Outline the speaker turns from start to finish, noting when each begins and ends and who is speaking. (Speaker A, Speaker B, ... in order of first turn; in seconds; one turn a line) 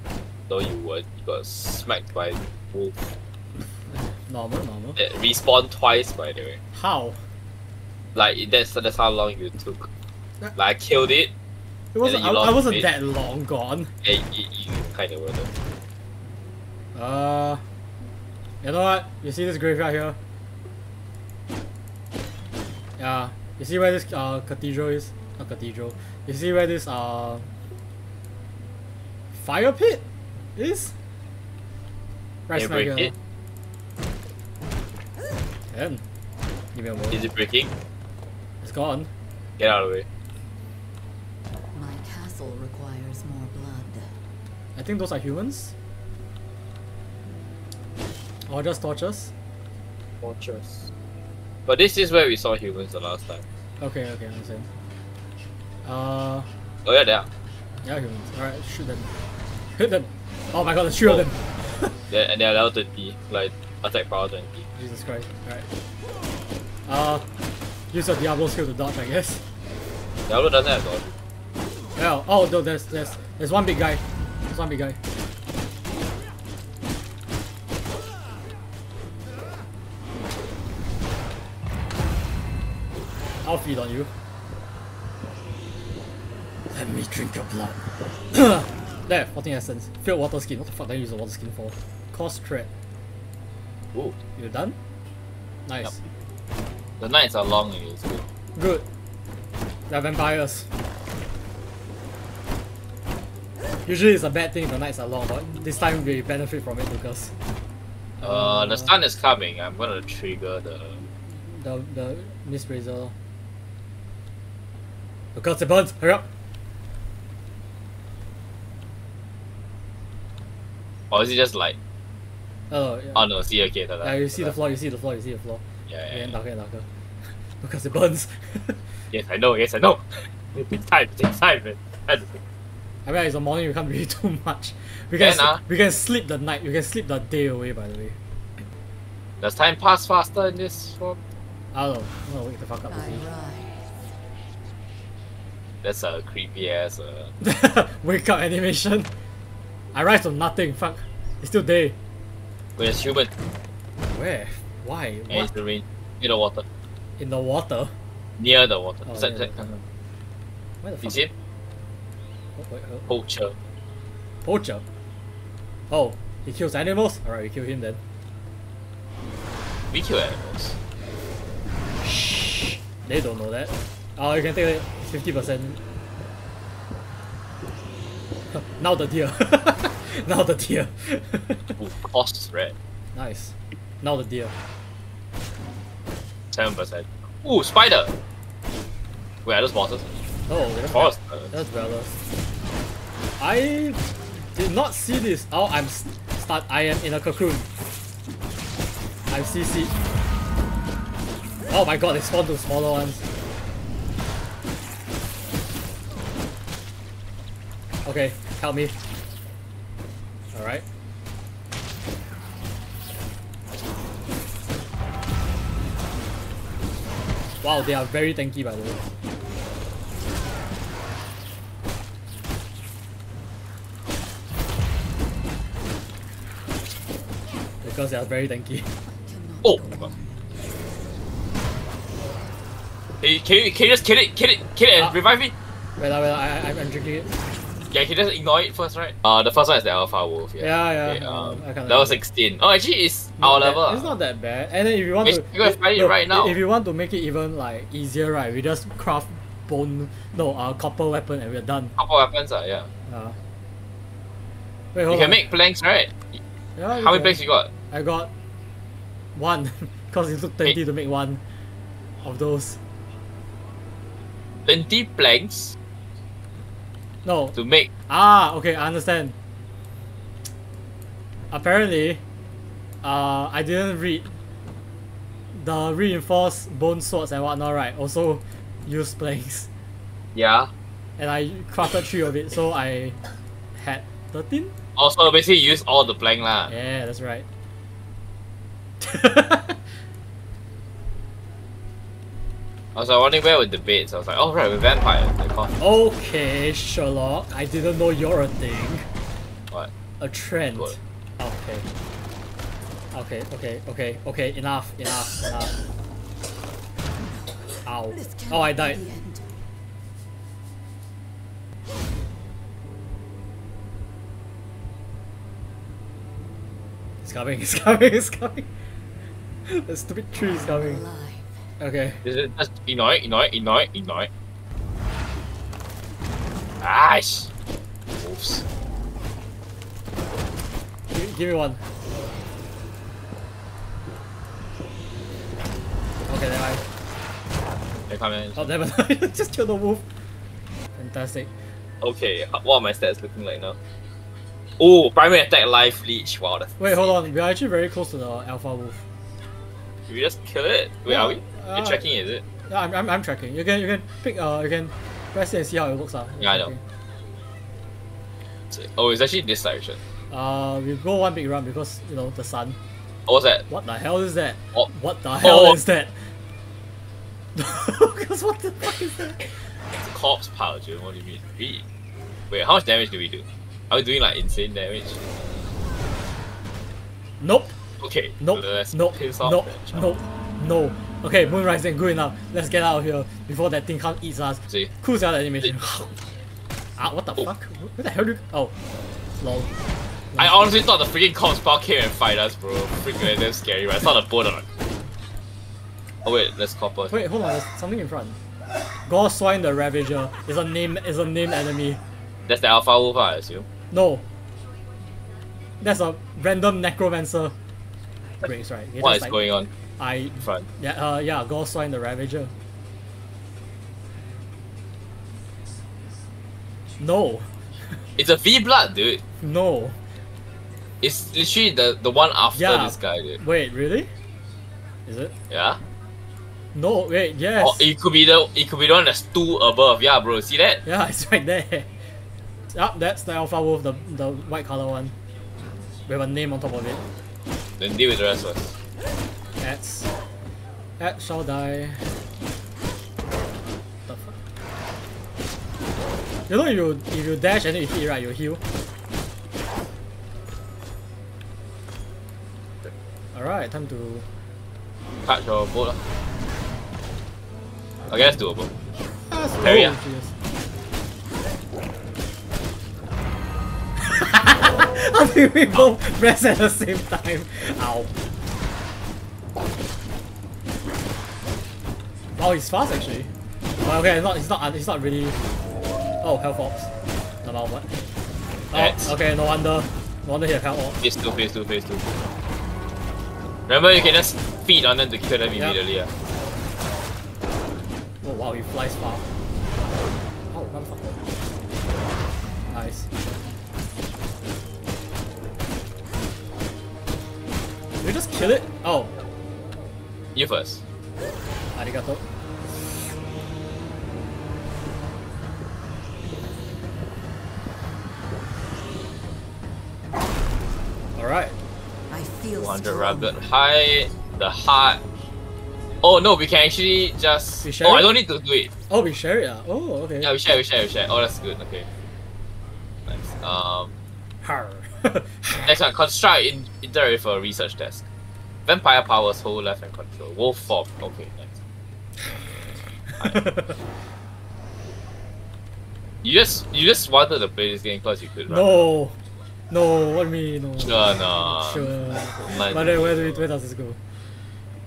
Speaker A: 0.5-3.0
Speaker B: 3.9-5.0
Speaker A: 5.0-6.6
Speaker B: 6.7-7.3
Speaker A: 8.2-9.9
Speaker A: 10.6-11.3
Speaker B: 11.9-13.9
Speaker A: 12.0-12.9
Speaker A: 14.0-15.5
Speaker B: 16.9-17.6
Speaker B: 18.6-20.2
Speaker B: 23.0-27.5
Speaker B: 29.3-30.0
Speaker B: 30.6-30.9
Speaker B: 32.5-33.1
Speaker A: 32.5-33.1
Speaker B: 35.7-36.0
Speaker B: 36.7-37.2
Speaker A: 37.1-37.7
Speaker B: 38.6-39.1
Speaker A: 39.6-40.1
Speaker C: 41.7-44.2
Speaker B: 44.8-45.7
Speaker B: 48.5-49.3
Speaker A: 50.2-50.9
Speaker A: 51.7-53.4
Speaker B: 53.8-54.7
Speaker B: 55.8-56.5
Speaker A: 56.9-57.3
Speaker B: 57.8-59.1
Speaker B: 59.8-62.0
Speaker A: 62.1-64.6
Speaker B: 64.8-65.7
Speaker B: 66.9-67.3
Speaker B: 67.9-69.4
Speaker A: 70.3-71.1
Speaker B: 72.0-75.0
Speaker B: 83.4-84.1
Speaker B: 86.7-92.7
Speaker B: 94.4-94.8
Speaker B: 95.7-96.0
Speaker A: 97.0-98.3
Speaker B: 98.6-98.8
Speaker B: 99.9-100.7
Speaker B: 103.8-107.3
Speaker B: 108.2-108.9
Speaker A: 108.2-111.0
Speaker B: 111.3-113.1
Speaker B: 115.3-116.3
Speaker A: 121.1-121.8
Speaker B: 122.7-123.2
Speaker A: 123.1-124.5
Speaker B: 124.0-128.9
Speaker A: 125.9-126.3
Speaker A: 129.1-132.4
Speaker B: 133.1-138.2
Speaker A: 135.2-135.6
Speaker A: 139.4-141.2
Speaker B: 141.7-143.3
Speaker C: 142.9-144.0
Speaker A: 145.8-147.3
Speaker B: 147.4-149.1
Speaker B: 149.9-152.0
Speaker A: 152.8-153.3
Speaker B: 154.1-155.5
Speaker A: 155.3-156.7
Speaker B: 157.2-157.9
Speaker A: 158.4-159.8
Speaker B: 159.1-159.6
Speaker B: 160.8-161.3
Speaker A: 161.0-161.3
Speaker B: 162.6-163.1
Speaker A: 163.1-163.6
Speaker B: 164.4-164.8
Speaker B: 165.9-168.0
Speaker A: 169.9-170.8
Speaker B: 172.0-175.8
Speaker B: 178.5-181.8
Speaker A: 181.8-182.7
Speaker B: 183.1-184.6
Speaker A: 186.5-188.1
Speaker A: 189.4-190.1
Speaker B: 190.5-192.2
Speaker A: 190.8-191.5
Speaker B: 193.4-197.7
Speaker B: 199.3-199.9
Speaker B: 201.7-203.2
Speaker B: 208.1-209.0
Speaker B: 210.5-210.8
Speaker B: 217.6-219.0
Speaker B: 227.8-228.9
Speaker C: 229.0-230.9
Speaker A: 229.6-230.1
Speaker A: 233.2-235.6
Speaker B: 236.0-237.4
Speaker A: 237.9-244.1
Speaker B: 240.6-242.2
Speaker B: 243.4-251.9
Speaker A: 245.2-246.6
Speaker A: 252.0-252.9
Speaker B: 253.1-253.4
Speaker B: 254.9-255.4
Speaker A: 255.1-256.4
Speaker B: 256.8-257.4
Speaker A: 256.9-257.7
Speaker B: 257.9-258.3
Speaker B: 259.4-261.4
Speaker B: 262.2-262.8
Speaker A: 264.7-265.8
Speaker B: 267.2-267.6
Speaker A: 267.6-267.9
Speaker B: 268.1-269.4
Speaker B: 271.5-272.2
Speaker B: 273.0-274.4
Speaker B: 275.5-279.7
Speaker A: 280.4-280.7
Speaker B: 281.2-283.2
Speaker B: 283.8-284.7
Speaker A: 285.0-286.7
Speaker B: 286.7-287.4
Speaker B: 289.0-289.9
Speaker A: 292.9-295.8
Speaker B: 295.8-299.1
Speaker B: 300.2-301.9
Speaker B: 303.1-305.8
Speaker C: 307.1-309.6
Speaker B: 307.9-309.0
Speaker B: 317.2-318.7
Speaker B: 319.7-321.0
Speaker C: 320.5-321.6
Speaker B: 321.8-322.2
Speaker A: 322.2-324.3
Speaker A: 326.8-327.5
Speaker A: 328.2-328.6
Speaker B: 331.1-331.8
Speaker B: 336.3-336.8
Speaker A: 338.1-338.7
Speaker B: 338.6-340.0
Speaker B: 341.0-341.5
Speaker A: 342.0-343.8
Speaker A: 344.8-347.2
Speaker B: 346.8-349.1
Speaker A: 350.1-352.4
Speaker B: 351.1-352.0
Speaker B: 352.7-356.8
Speaker A: 356.4-356.7
Speaker A: 358.7-360.0
Speaker B: 360.3-362.8
Speaker A: 363.3-363.6
Speaker B: 363.7-366.3
Speaker B: 367.6-369.7
Speaker A: 369.9-371.8
Speaker A: 372.5-375.2
Speaker B: 377.4-377.8
Speaker A: 378.0-380.1
Speaker B: 378.4-386.1
Speaker B: 387.0-388.8
Speaker B: 389.4-389.7
Speaker A: 390.4-394.6
Speaker A: 396.2-397.1
Speaker B: 397.1-398.4
Speaker B: 399.1-402.0
Speaker A: 402.5-403.7
Speaker B: 403.9-404.2
Speaker B: 405.8-407.5
Speaker B: 408.4-409.4
Speaker A: 409.0-409.7
Speaker B: 410.0-412.5
Speaker B: 417.0-418.0
Speaker A: 418.2-419.2
Speaker B: 419.4-420.0
Speaker A: 421.0-423.4
Speaker B: 422.5-424.1
Speaker B: 425.1-425.3
Speaker A: 425.5-425.8
Speaker B: 426.7-427.9
Speaker A: 427.6-430.8
Speaker B: 430.8-431.9
Speaker B: 432.7-435.1
Speaker B: 436.1-437.0
Speaker A: 437.8-438.8
Speaker B: 439.6-440.1
Speaker B: 441.0-442.2
Speaker B: 444.1-444.4
Speaker B: 446.5-448.6
Speaker B: 453.3-454.3
Speaker A: 455.2-456.0
Speaker A: 458.1-458.7
Speaker B: 459.2-460.3
Speaker A: 459.6-459.9
Speaker B: 464.0-468.1
Speaker B: 472.4-475.4
Speaker B: 476.2-476.9
Speaker B: 477.4-478.0
Speaker B: 478.7-481.0
Speaker A: 478.7-479.1
Speaker A: 481.0-482.1
Speaker A: 483.7-486.1
Speaker B: 488.2-489.3
Speaker B: 490.5-491.2
Speaker B: 492.7-493.1
Speaker B: 498.0-499.1
Speaker A: 500.4-500.8
Speaker B: 501.7-502.2
Speaker B: 511.1-511.6
Speaker C: 512.1-513.4
Speaker A: 512.5-515.0
Speaker A: 516.0-518.7
Speaker B: 517.6-518.1
Speaker B: 518.9-520.3
Speaker A: 520.2-521.9
Speaker A: 523.1-523.9
Speaker B: 524.4-525.7
Speaker A: 525.6-528.1
Speaker A: 528.7-531.6
Speaker B: 533.2-533.8
Speaker A: 536.2-538.9
Speaker B: 538.5-539.2
Speaker B: 539.7-544.0
Speaker A: 540.8-543.5